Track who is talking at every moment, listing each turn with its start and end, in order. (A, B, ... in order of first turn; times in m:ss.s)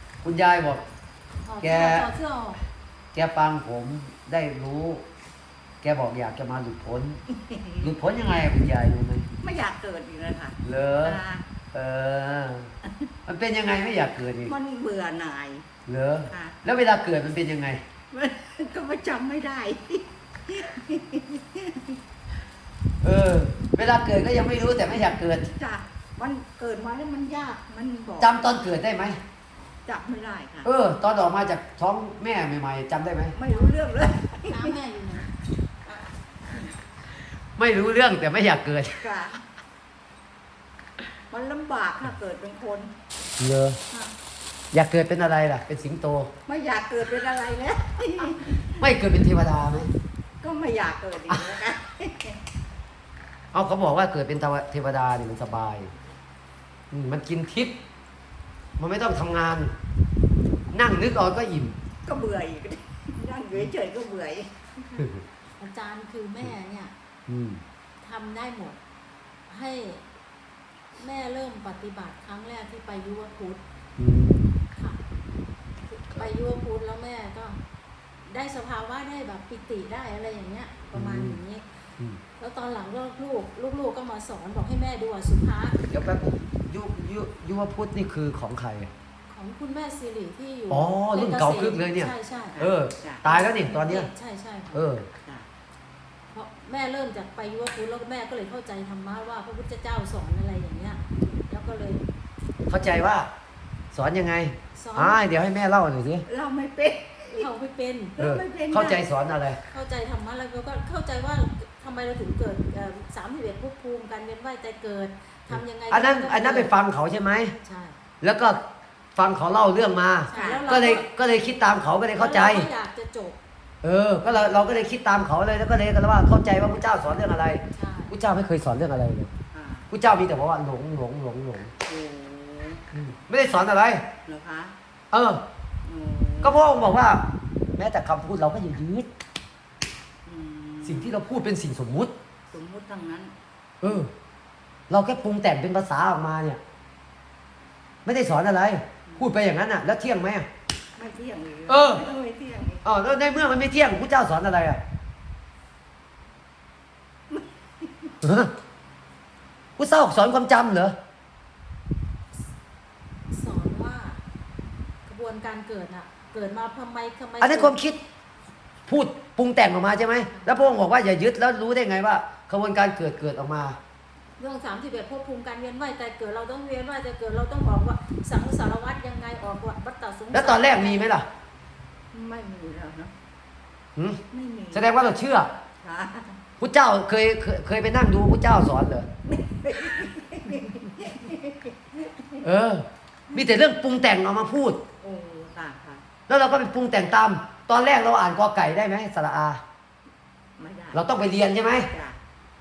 0:00.2-0:00.8 A
0:01.4-0:02.6 B
0:01.6-0:02.1 A
0:03.1-0:05.0 A
0:05.8-0:07.2 A
0:07.3-0:08.0 C
0:07.8-0:09.3 A
0:09.4-0:11.4 C
0:10.6-0:11.2 A
0:11.7-0:12.7 A
0:12.8-0:13.1 C
0:13.3-0:14.5 A
0:14.4-0:15.7 C
0:15.8-0:17.8 A
0:16.3-0:16.6 C
0:18.1-0:22.0 C
0:23.0-0:25.5 A
0:25.4-0:28.4 C
0:28.2-0:29.2 A
0:29.8-0:30.7 C
0:30.6-0:33.3 A
0:33.3-0:34.8 C
0:33.5-0:33.8 B
0:34.4-0:35.3 B
0:35.8-0:36.7 C
0:37.6-0:39.0 A
0:39.0-0:39.4 C
0:41.3-0:42.9 C
0:43.4-0:43.8 A
0:44.7-0:46.3 A
0:46.4-0:48.9 C
0:48.8-0:49.9 A
0:50.4-0:52.4 C
0:53.5-0:55.9 A
0:56.9-0:57.7 A
0:58.8-0:59.7 A
1:00.7-1:01.8 A
1:02.0-1:05.1 C
1:05.6-1:06.9 B
1:07.3-1:07.6 A
1:08.0-1:08.8 B
1:09.5-1:10.0 B
1:11.0-1:13.6 B
1:14.0-1:14.6 A
1:14.7-1:15.0 B
1:15.9-1:17.6 B
1:18.2-1:21.6 B
1:20.9-1:21.4 A
1:22.4-1:25.8 B
1:25.8-1:28.9 A
1:29.3-1:32.6 B
1:30.7-1:34.1 A
1:32.5-1:33.2 C
1:33.2-1:34.8 B
1:34.7-1:35.1 A
1:35.2-1:35.5 C
1:36.3-1:42.0 B
1:42.7-1:43.3 A
1:43.9-1:46.2 A
1:44.8-1:45.2 B
1:46.3-1:47.5 C
1:47.3-1:48.2 B
1:48.2-1:49.0 C
1:48.2-1:49.6 A
1:49.7-1:56.7 B
1:55.5-1:57.5 A
1:57.6-1:58.0 B
1:58.2-1:58.6 A
1:59.2-2:02.7 A
2:00.3-2:01.1 B
2:00.3-2:00.6 C
2:02.1-2:03.4 B
2:03.8-2:09.3 A
2:04.2-2:04.6 B
2:07.7-2:08.1 B
2:09.5-2:09.9 C
2:09.9-2:11.7 A
2:11.8-2:13.0 C
2:12.9-2:14.0 A
2:14.2-2:14.8 C
2:15.1-2:15.4 A
2:15.8-2:16.8 C
2:16.4-2:19.1 A
2:20.2-2:21.2 C
2:20.8-2:22.1 A
2:22.5-2:23.3 C
2:23.8-2:24.1 A
2:24.9-2:26.6 A
2:28.0-2:30.5 A
2:29.1-2:29.3 C
2:31.0-2:32.8 C
2:31.7-2:32.1 A
2:32.8-2:34.8 A
2:37.3-2:38.2 C
2:38.2-2:38.5 A
2:39.8-2:41.0 A
2:43.3-2:44.2 B
2:45.0-2:47.8 B
2:47.4-2:48.0 A
2:48.9-2:53.8 A
2:50.2-2:50.7 B
2:54.4-3:01.2 B
3:00.3-3:01.2 A
3:02.1-3:03.1 C
3:04.0-3:04.2 A
3:04.3-3:05.2 C
3:04.7-3:05.5 A
3:05.8-3:06.4 C
3:06.6-3:09.1 A
3:09.2-3:12.4 C
3:12.4-3:14.8 A
3:15.0-3:16.0 C
3:16.3-3:19.6 A
3:20.6-3:22.2 C
3:20.9-3:21.9 A